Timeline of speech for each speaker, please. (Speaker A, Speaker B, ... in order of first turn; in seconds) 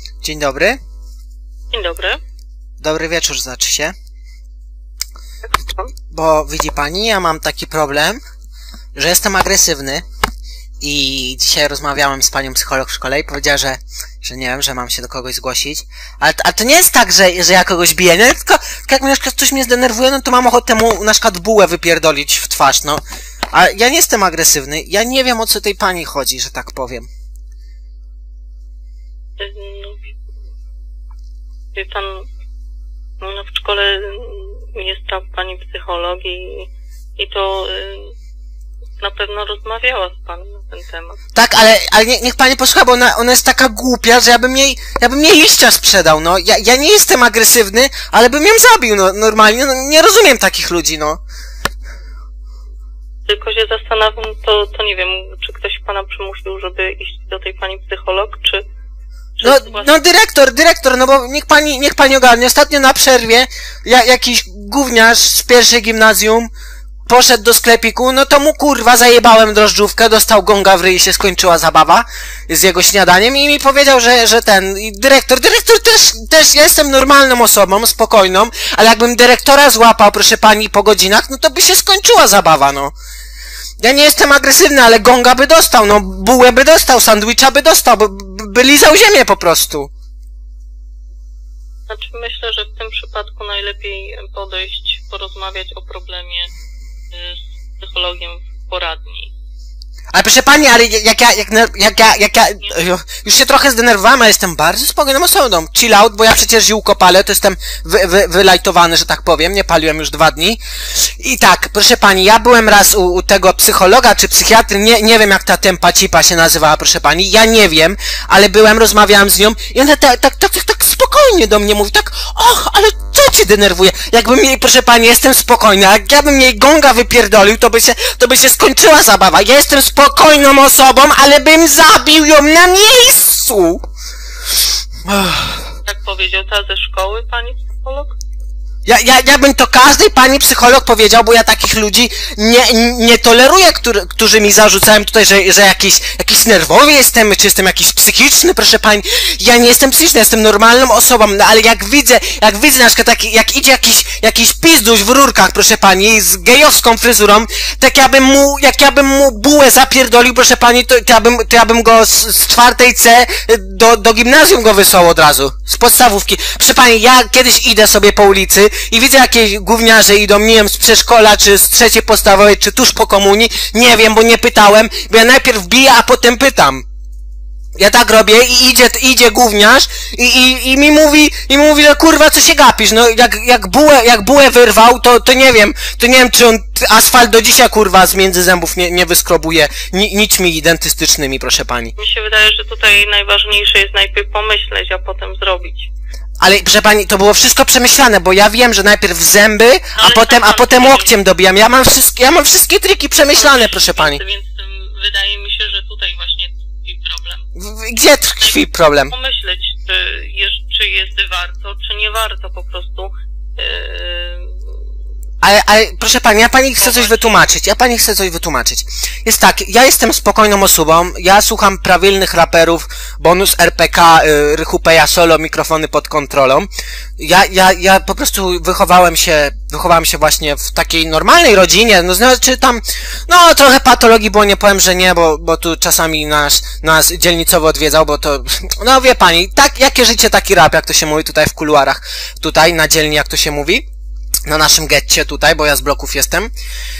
Speaker A: 0.2-0.8, 2.8-4.0, 6.1-8.2, 9.0-10.1, 10.8-23.0, 23.5-27.1, 41.4-51.2, 59.4-66.5, 67.1-82.9, 83.8-89.9, 100.1-133.8, 135.1-135.6, 138.9-176.8, 177.8-191.9, 196.4-204.2, 207.6-209.1, 215.4-243.8, 244.5-246.5
Speaker B: 1.7-2.2, 5.4-5.9, 29.4-30.1, 31.7-32.3, 33.2-38.1, 39.0-41.2, 53.3-58.6, 59.4-59.9, 91.9-96.5, 97.1-99.3, 135.8-138.2, 192.0-195.9, 200.0-201.1, 203.2-207.4, 208.4-214.5, 216.8-217.4